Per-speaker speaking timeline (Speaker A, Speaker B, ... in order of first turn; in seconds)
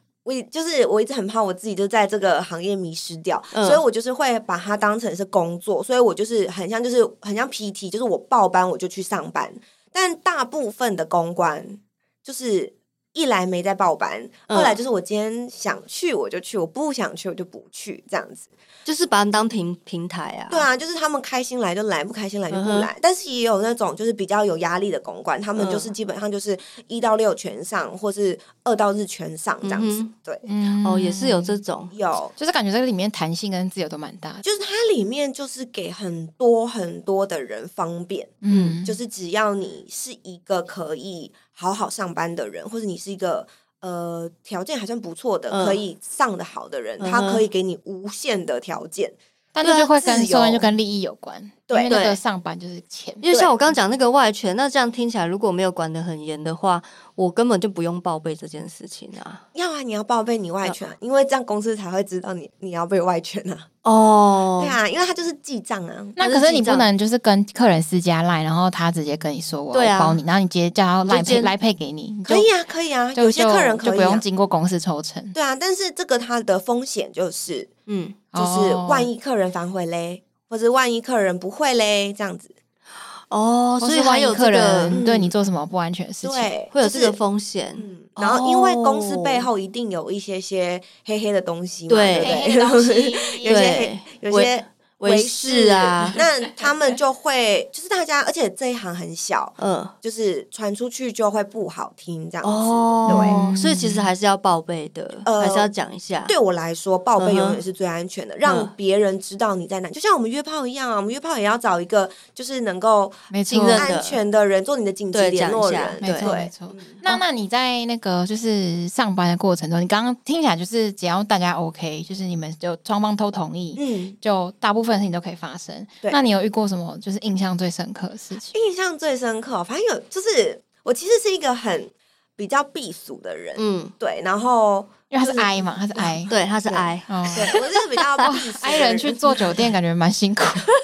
Speaker A: 0.2-18.5, 20.5-30.4, 31.9-32.3, 34.4-49.2, 49.7-50.7, 51.7-52.0, 53.3-53.5, 59.5-63.7, 64.6-66.2, 72.3-74.2, 75.3-77.7, 78.3-82.6, 84.9-85.3, 86.2-87.2, 87.8-103.5, 105.2-105.7, 106.3-113.2, 113.8-117.2, 123.8-124.2, 128.5-139.7
Speaker B: 3.5-3.8, 14.5-14.8, 18.9-20.7, 22.5-22.9, 25.6-25.9, 29.6-30.1, 30.8-31.9, 38.5-38.8, 45.5-45.8, 47.0-47.5, 49.6-49.9, 51.9-52.2, 53.2-59.4, 63.8-64.8, 66.2-66.9, 69.7-70.2, 71.1-71.5, 77.9-78.2, 83.3-85.0, 86.7-89.5, 91.9-92.4, 93.5-96.2, 99.6-99.9, 102.4-106.3, 107.2-107.6, 108.4-108.7, 113.5-114.2, 115.1-116.3, 133.6-133.9, 136.3-138.3
Speaker C: 30.4-31.6, 32.4-34.5, 38.4-39.0, 49.5-53.2, 66.2-72.5, 73.2-75.3, 78.3-79.1, 83.8-86.5, 92.2-93.8, 96.2-97.0, 103.1-104.1, 113.3-113.9, 116.0-128.5, 135.1-136.3, 137.1-137.6, 138.2-140.7